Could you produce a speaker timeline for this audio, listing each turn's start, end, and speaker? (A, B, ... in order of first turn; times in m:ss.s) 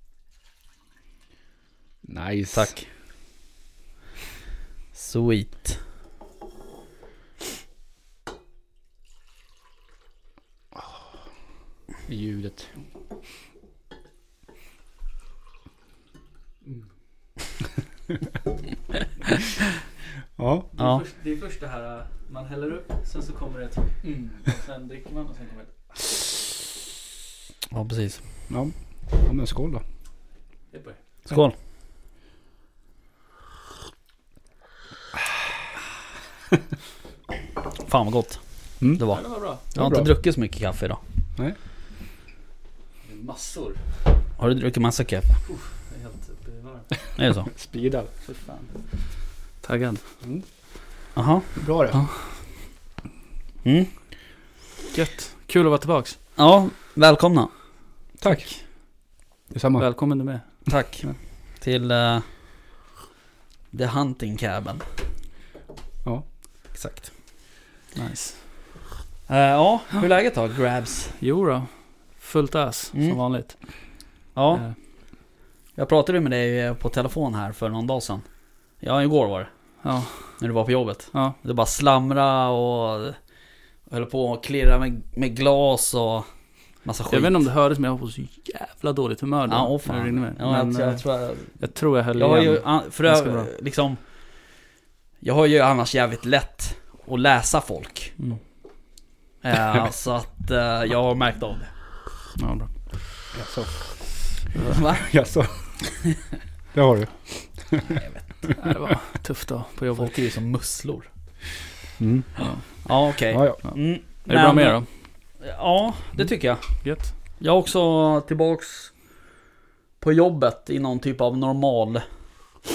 0:02.0-0:02.7 A
0:02.5-0:02.8 B
0:04.9-0:05.8 B
0:12.1-0:12.7 A
0:20.4-0:20.7 A
0:20.8-0:26.3 C
0:27.7-0:28.2 B
0:28.5-0:29.8 A
0:30.7-0:31.0 C
0:31.3-0:31.6 B
0:37.8-0:38.4 B
0:38.9-0:41.0 B
0:39.1-0:39.6 C
0:39.7-0:40.1 A
0:43.0-0:43.8 C
0:44.4-0:45.3 B
0:45.5-0:47.0 C
0:47.2-0:47.5 B
0:47.5-0:48.1 A
0:48.2-0:48.8 C
0:49.6-0:50.0 C
0:51.2-0:52.0 B
0:51.6-0:52.0 A
0:53.6-0:53.9 B
0:54.9-0:56.2 C
0:56.4-0:57.5 B
0:58.2-0:58.5 A
0:59.5-0:59.9 A
0:59.8-1:01.2 C
1:00.7-1:02.3 B
1:03.7-1:04.8 B
1:06.7-1:07.1 B
1:08.0-1:08.4 C
1:09.3-1:11.2 B
1:11.2-1:13.6 C
1:14.4-1:14.6 B
1:15.8-1:18.2 B
1:18.8-1:19.5 B
1:19.8-1:20.4 C
1:20.4-1:23.2 B
1:23.9-1:26.3 B
1:26.8-1:27.3 B
1:27.1-1:33.5 C
1:29.5-1:31.6 B
1:32.2-1:34.0 B
1:35.2-1:38.2 B
1:39.4-1:41.7 B
1:42.4-1:43.0 C
1:43.3-1:43.9 A
1:44.6-1:44.8 C
1:44.7-1:45.1 B
1:44.8-1:45.8 A
1:46.7-1:48.0 A
1:47.8-1:48.4 B
1:48.6-1:50.2 C
1:50.0-1:51.1 B
1:52.0-1:52.4 A
1:52.4-1:52.6 C
1:52.8-1:54.8 B
1:53.3-1:53.6 A
1:53.6-1:54.9 C
1:55.4-1:56.8 B
1:56.8-1:57.1 C
1:57.4-1:58.9 B
2:00.0-2:02.0 B